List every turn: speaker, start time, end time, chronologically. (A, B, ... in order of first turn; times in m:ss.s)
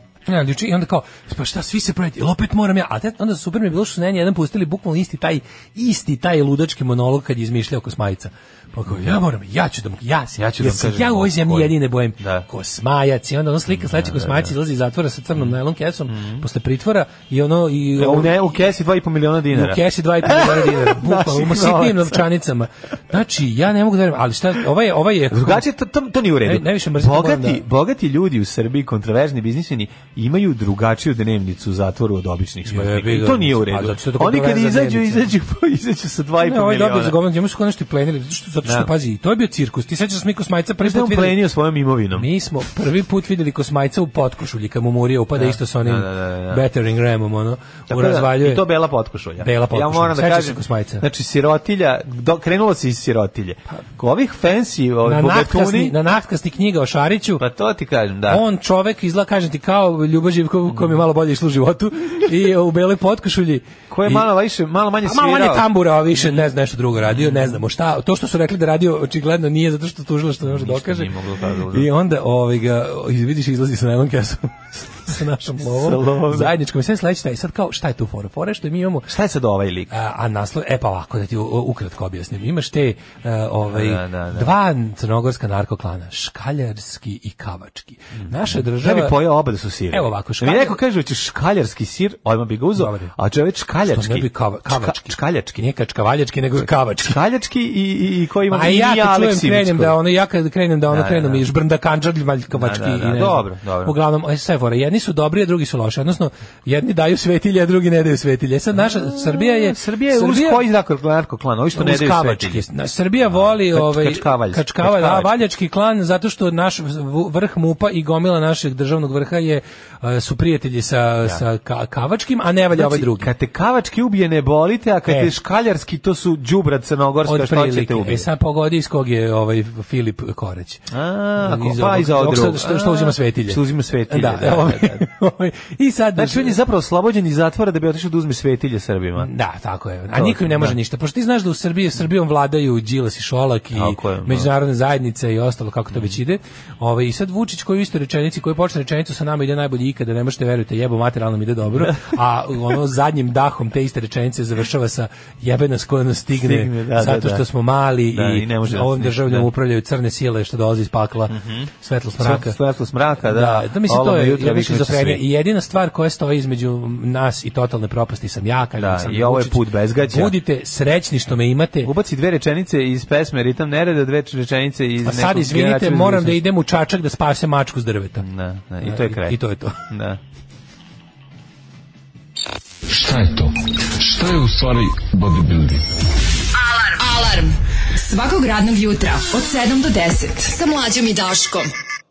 0:00.3-0:18.4 A
0:08.9-0:09.2 B
0:10.4-0:12.4 B
0:13.7-0:14.5 B
0:16.1-0:16.4 B
0:18.0-0:22.2 B
0:19.5-0:25.6 A
0:25.3-0:37.2 B
0:26.4-0:27.6 A
0:32.7-0:35.3 A
0:36.4-0:41.4 A
0:38.6-0:38.9 B
0:40.8-0:42.3 B
0:42.1-0:48.6 A
0:45.3-0:46.6 B
0:47.9-0:56.0 B
0:49.4-0:51.0 A
0:55.0-0:57.4 A
0:57.4-0:58.4 B
0:58.3-1:04.3 A
1:03.9-1:05.7 B
1:05.0-1:11.1 A
1:07.1-1:07.6 B
1:10.4-1:11.9 B
1:11.7-1:19.1 A
1:15.6-1:16.5 B
1:19.1-1:19.9 B
1:19.9-1:29.2 A
1:23.7-1:24.5 B
1:28.2-1:35.6 B
1:29.9-1:30.8 A
1:32.8-1:33.1 A
1:33.9-1:37.2 A
1:36.6-1:40.0 B
1:38.5-1:50.6 A
1:40.9-1:41.4 B
1:42.5-1:44.0 B
1:48.8-1:52.6 B
1:51.7-2:03.3 A
1:53.2-1:55.3 B
2:02.7-2:08.3 B
2:05.1-2:05.3 A
2:07.2-2:10.9 A
2:10.9-2:15.0 B
2:11.4-2:16.6 A
2:16.2-2:19.3 B
2:19.2-2:42.6 A
2:20.1-2:20.8 B
2:23.7-2:24.5 B
2:31.7-2:32.1 B
2:36.3-2:37.4 B
2:38.1-2:39.5 B
2:41.3-2:45.2 B
2:43.2-2:51.9 A
2:48.8-2:50.4 B
2:51.8-2:56.4 B
2:55.0-2:58.2 A
2:58.2-3:00.2 B
2:58.8-2:59.8 A
3:02.9-3:05.8 C
3:06.6-3:11.7 D